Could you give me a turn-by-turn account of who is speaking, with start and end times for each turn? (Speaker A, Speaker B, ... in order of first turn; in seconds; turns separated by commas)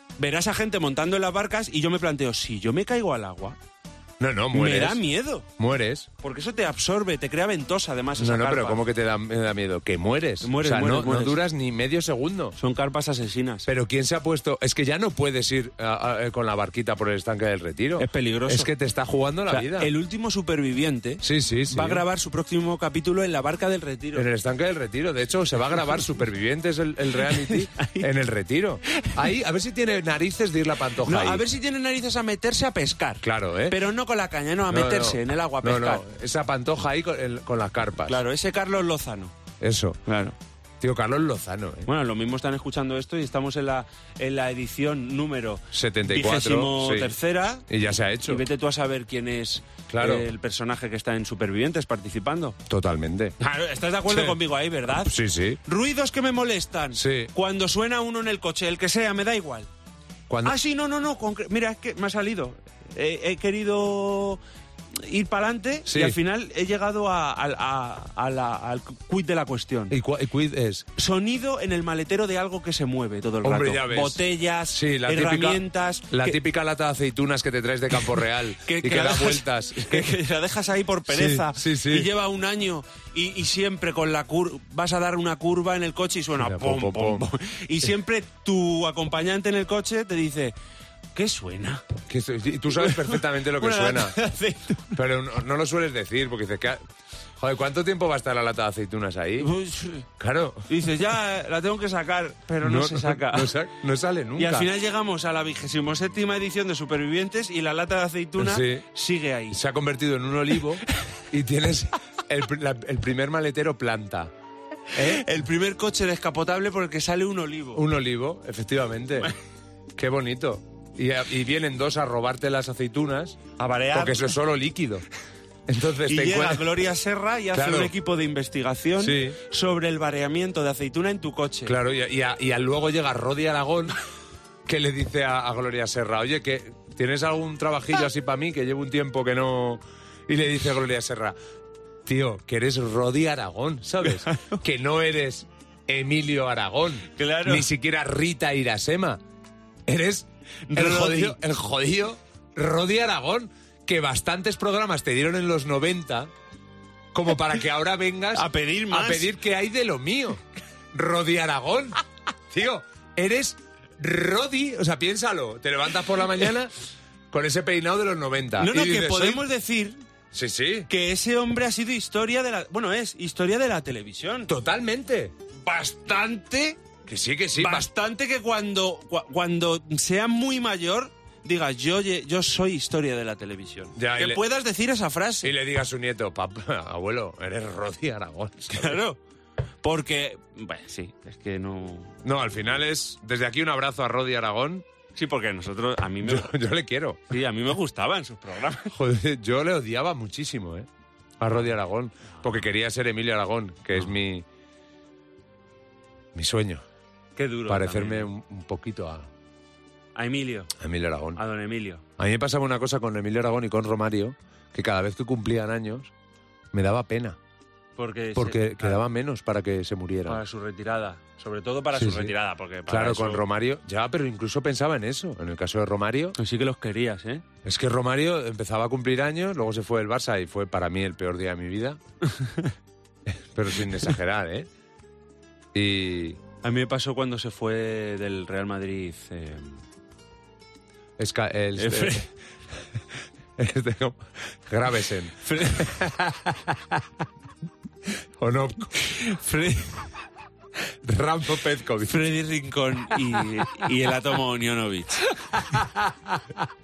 Speaker A: 0.2-3.6, Speaker B: 4.2-5.0, Speaker A: 4.5-5.5, Speaker B: 5.6-6.1, Speaker A: 6.2-8.8, Speaker B: 8.2-12.6, Speaker A: 10.4-11.4, Speaker A: 12.6-13.7, Speaker B: 13.7-19.9, Speaker A: 18.0-18.7, Speaker A: 19.5-24.3, Speaker B: 21.2-22.1, Speaker B: 24.1-31.4, Speaker A: 27.2-28.1, Speaker A: 29.0-29.3, Speaker A: 31.0-36.0, Speaker B: 33.2-33.8, Speaker B: 34.7-38.2, Speaker A: 38.0-39.3, Speaker B: 39.6-40.0, Speaker A: 40.1-40.4, Speaker B: 40.8-41.9, Speaker A: 41.9-47.7, Speaker B: 45.7-47.2, Speaker B: 47.7-48.5, Speaker A: 48.2-52.6, Speaker B: 49.9-50.3, Speaker B: 52.7-53.4, Speaker A: 53.4-59.7, Speaker B: 54.1-54.4, Speaker B: 55.0-55.6, Speaker B: 57.0-57.3, Speaker B: 60.3-60.6, Speaker A: 60.4-64.4, Speaker A: 65.0-70.0, Speaker B: 65.9-66.2, Speaker B: 69.9-70.9, Speaker A: 71.0-76.4, Speaker B: 73.4-80.2, Speaker A: 78.0-90.5, Speaker B: 81.1-82.1, Speaker B: 86.4-87.3, Speaker A: 91.1-91.8, Speaker B: 92.1-94.2, Speaker A: 92.7-95.0, Speaker B: 94.9-96.8, Speaker B: 97.4-99.5, Speaker A: 99.4-100.1, Speaker B: 100.2-100.8, Speaker A: 100.7-103.6, Speaker B: 102.6-104.7, Speaker A: 104.4-109.6, Speaker B: 108.4-108.9, Speaker B: 109.5-114.3, Speaker B: 114.9-115.3, Speaker A: 115.0-117.9, Speaker B: 117.8-119.3, Speaker B: 120.0-123.4, Speaker A: 123.6-124.4, Speaker B: 123.9-125.0, Speaker B: 125.7-126.7, Speaker A: 126.0-131.8, Speaker B: 127.5-127.9, Speaker B: 129.0-129.4, Speaker B: 131.7-134.0, Speaker B: 134.7-141.4, Speaker B: 142.1-149.2, Speaker A: 144.2-144.5, Speaker A: 147.1-147.7, Speaker B: 149.9-156.3, Speaker A: 150.7-151.4, Speaker B: 157.1-160.4, Speaker A: 158.3-159.3, Speaker B: 160.9-162.0, Speaker B: 162.5-166.7, Speaker B: 167.3-169.4, Speaker A: 168.6-170.0, Speaker B: 170.3-170.9, Speaker A: 170.9-174.5, Speaker B: 174.5-175.3, Speaker A: 175.6-176.8, Speaker B: 177.1-177.9, Speaker A: 177.6-185.5, Speaker B: 184.0-184.4, Speaker B: 185.4-189.0, Speaker A: 188.7-189.2, Speaker A: 189.8-192.2, Speaker B: 192.2-194.8, Speaker A: 195.2-196.6, Speaker B: 196.2-197.2, Speaker A: 197.3-199.0, Speaker B: 198.9-200.9, Speaker B: 201.4-204.5, Speaker B: 206.3-206.8, Speaker A: 207.3-208.3, Speaker B: 207.7-209.3, Speaker A: 210.2-210.7, Speaker B: 210.8-211.4, Speaker A: 211.3-212.0, Speaker B: 212.2-216.1, Speaker B: 216.7-217.4, Speaker A: 218.0-219.0, Speaker B: 218.3-220.4, Speaker A: 220.3-223.5, Speaker B: 221.9-222.3, Speaker B: 222.9-226.4, Speaker A: 226.4-227.4, Speaker B: 227.6-232.0, Speaker A: 232.4-232.7, Speaker B: 233.3-234.7, Speaker B: 235.7-236.4, Speaker A: 236.6-239.8, Speaker B: 241.2-242.3, Speaker A: 241.8-242.3, Speaker B: 243.6-247.0, Speaker A: 245.4-246.1, Speaker B: 248.4-249.1, Speaker A: 249.0-250.2, Speaker B: 251.0-252.3, Speaker A: 252.0-255.8, Speaker B: 253.4-253.9, Speaker B: 255.5-256.6